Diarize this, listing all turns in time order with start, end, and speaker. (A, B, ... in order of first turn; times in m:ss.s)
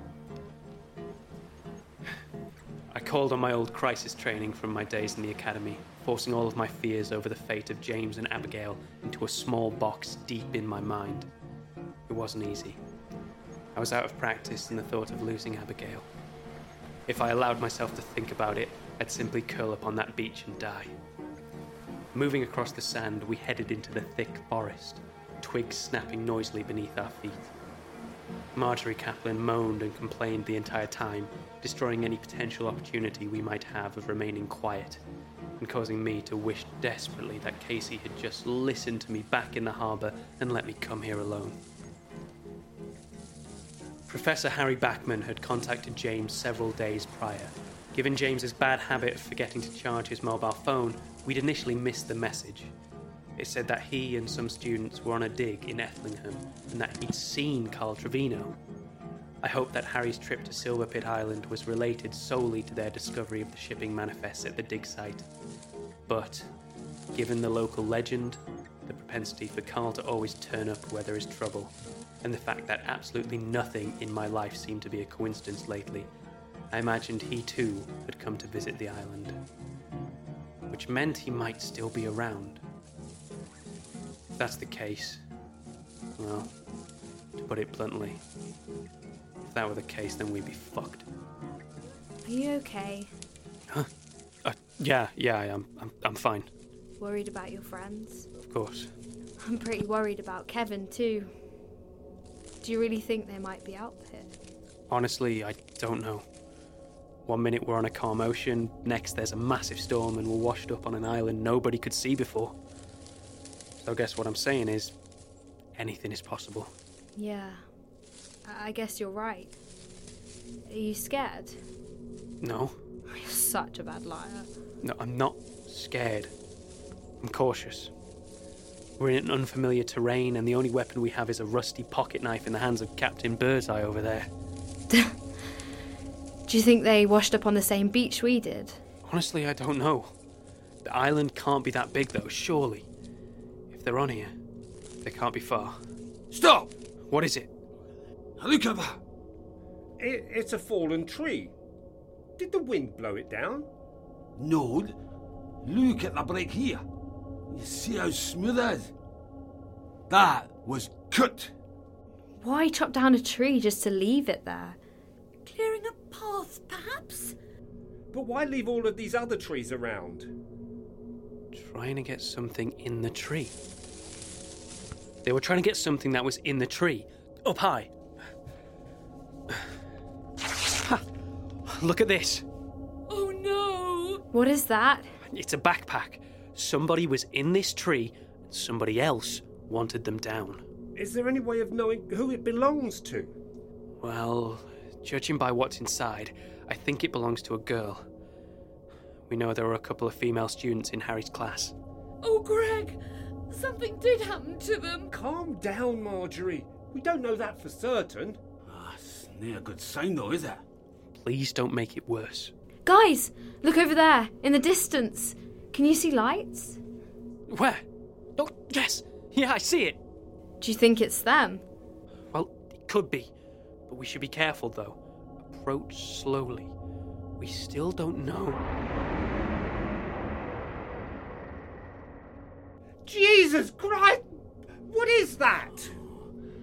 0:02.9-0:11.3 A
0:12.1-0:12.8 A
0:13.8-0:16.1 A
0:17.1-0:20.9 A
0:22.1-0:27.5 A
0:28.6-0:35.0 A
0:35.6-0:41.6 A
0:44.1-0:52.7 A
0:53.4-0:58.6 A
0:59.4-1:05.3 A
1:06.1-1:06.5 A
1:07.1-1:16.1 A
1:16.7-1:19.4 A
1:20.7-1:22.6 A
1:24.4-1:25.2 A
1:26.2-1:26.5 A
1:27.4-1:28.2 A
1:29.4-1:31.1 A
1:32.2-1:33.1 B
1:34.4-1:36.5 A
1:37.0-1:38.3 B
1:38.4-1:38.9 A
1:39.4-1:41.3 B
1:42.6-1:44.3 B
1:44.9-1:46.2 A
1:47.3-1:52.6 A
1:53.8-1:54.9 A
1:55.8-1:56.7 A
1:57.2-1:57.6 B
1:58.4-1:59.6 B
2:00.7-2:01.6 B
2:02.4-2:02.8 A
2:03.1-2:04.5 B
2:04.8-2:06.3 A
2:07.2-2:07.9 A
2:09.0-2:14.3 A
2:14.9-2:15.2 B
2:16.5-2:18.8 B
2:19.1-2:20.1 A
2:20.8-2:22.9 A
2:23.7-2:24.3 A
2:25.0-2:25.8 A
2:26.3-2:26.7 C
2:27.1-2:27.5 A
2:28.4-2:29.0 C
2:30.0-2:31.5 D
2:32.4-2:33.7 D
2:34.4-2:35.0 C
2:35.6-2:36.8 C
2:37.5-2:38.9 C
2:40.1-2:41.5 C
2:42.4-2:44.8 B
2:45.4-2:47.3 E
2:48.1-2:50.3 D
2:51.5-2:53.5 A
2:55.2-2:57.9 A
3:01.7-3:02.4 A
3:03.1-3:04.2 E
3:04.3-3:05.1 B
3:05.3-3:10.6 A
3:11.0-3:13.3 D
3:14.0-3:18.0 A
3:19.3-3:21.8 A
3:22.2-3:25.1 E
3:25.1-3:28.4 D
3:28.7-3:30.6 C
3:31.2-3:32.5 A
3:32.9-3:36.8 B
3:37.5-3:37.8 A
3:38.4-3:40.0 A
3:40.6-3:41.6 B
3:42.3-3:43.3 A
3:43.9-3:46.7 A
3:47.4-3:48.6 A
3:53.0-3:54.2 D
3:54.9-3:55.9 D